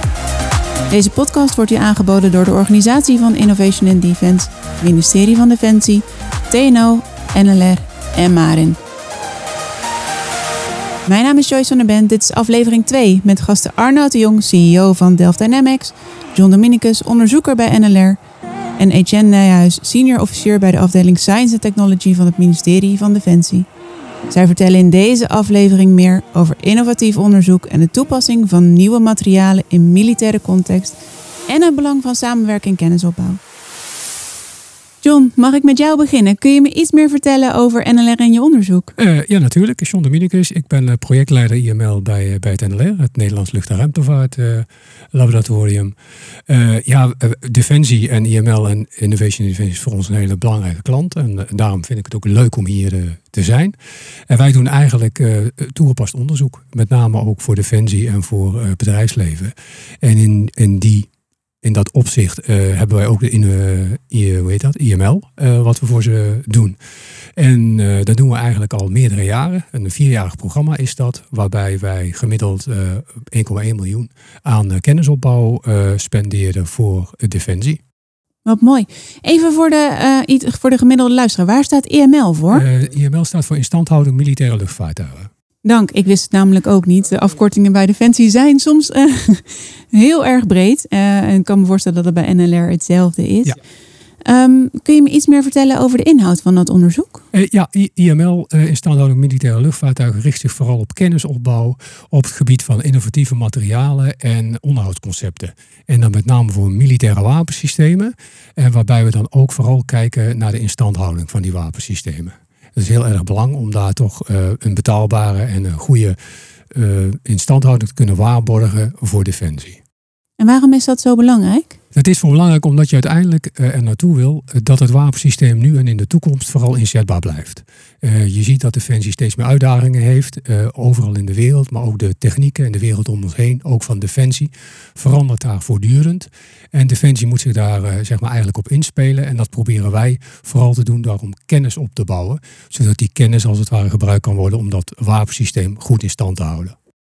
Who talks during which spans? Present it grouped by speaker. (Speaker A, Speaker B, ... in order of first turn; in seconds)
Speaker A: 0.9-8.8, 11.1-18.2, 18.8-23.7, 24.3-31.0, 31.5-33.4, 35.0-38.9, 78.5-82.7, 85.6-93.6, 94.2-97.2, 120.4-121.8
Speaker B: 39.0-45.9, 46.5-53.8, 54.3-61.1, 61.6-66.8, 67.4-77.8, 82.5-85.3, 97.3-116.2, 116.7-119.8, 121.9-146.8